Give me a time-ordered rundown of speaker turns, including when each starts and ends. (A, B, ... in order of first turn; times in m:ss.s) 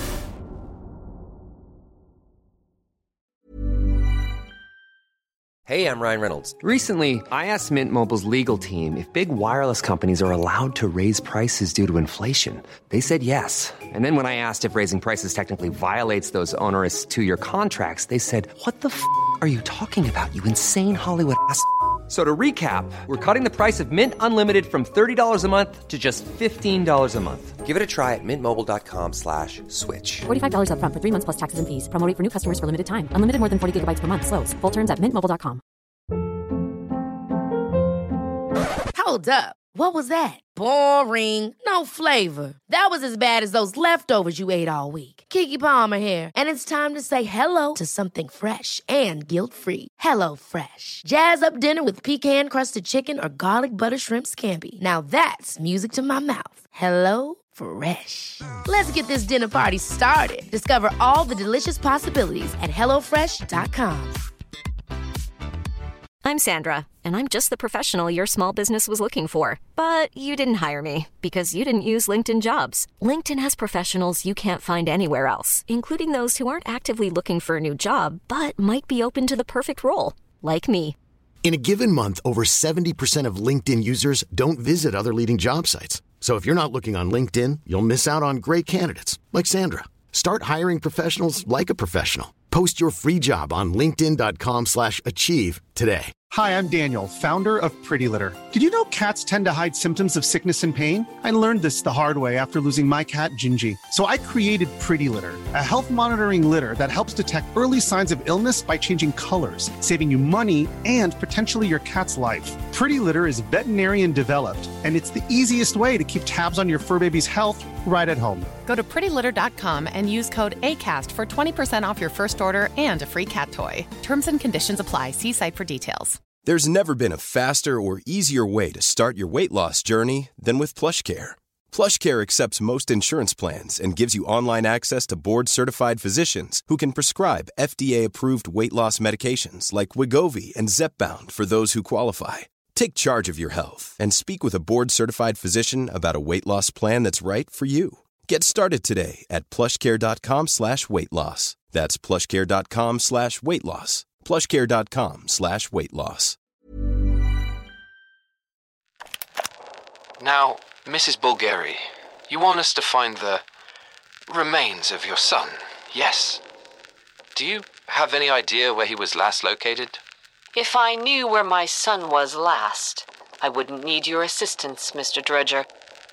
0:05.6-0:30.2 A
0:30.2-0:35.6 B
0:38.9-1:04.2 C
1:06.2-1:21.0 D
1:21.4-1:36.1 E
1:36.3-1:58.5 F
1:58.6-2:06.2 G
2:06.4-2:36.4 H
2:40.2-2:43.4 I
2:44.3-2:46.4 I
2:47.3-2:50.0 I
2:50.5-2:55.7 J